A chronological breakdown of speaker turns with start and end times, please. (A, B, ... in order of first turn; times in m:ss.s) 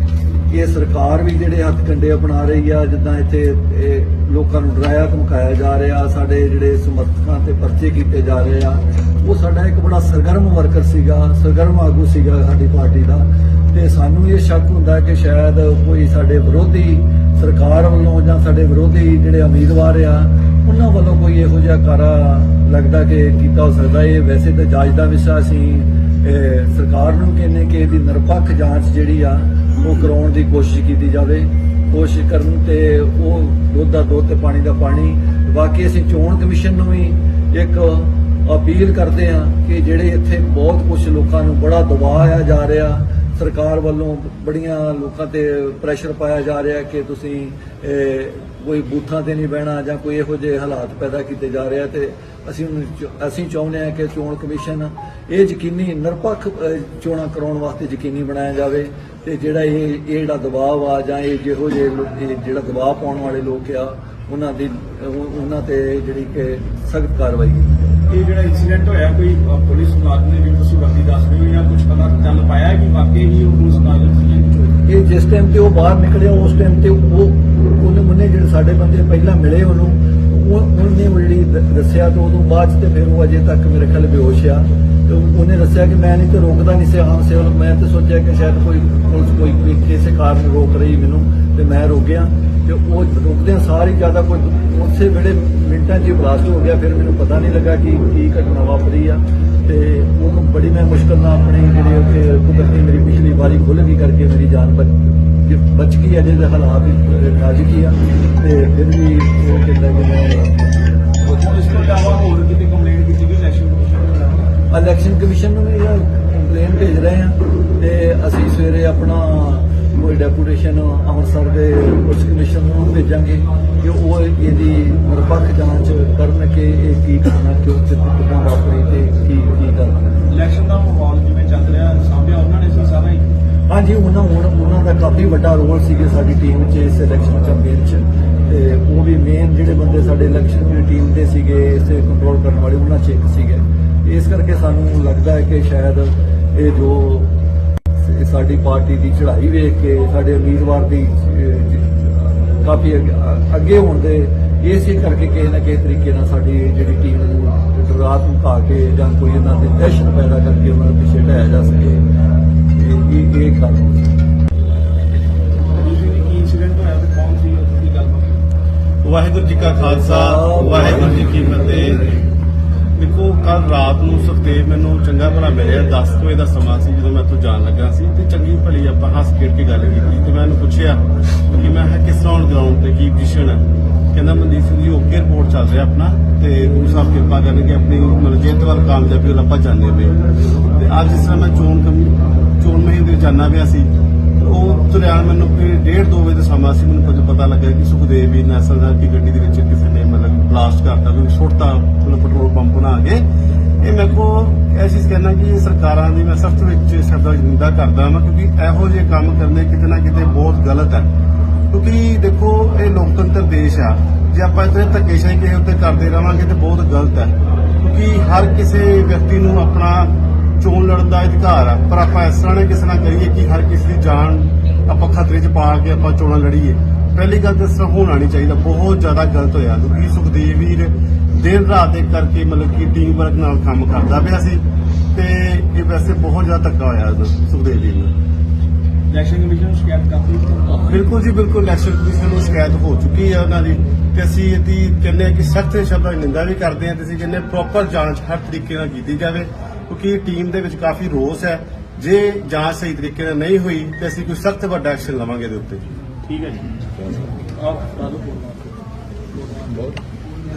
0:00.5-1:07.7 A
1:08.1-1:14.8 B
1:14.9-1:50.6 A
1:51.2-1:54.5 B
1:54.7-2:10.2 A
2:10.3-2:13.3 B
2:13.7-2:27.3 A
2:28.0-2:42.0 A
2:42.7-2:44.1 A
2:45.8-2:48.4 B
2:49.0-2:52.1 C
2:49.9-2:51.2 A
2:53.0-3:10.2 C
3:10.7-3:23.2 C
3:23.8-3:31.1 C
3:31.7-3:54.6 C
3:55.1-3:58.1 C
3:59.1-4:01.0 B
4:00.9-4:15.8 C
4:16.2-4:18.8 B
4:19.3-4:19.9 B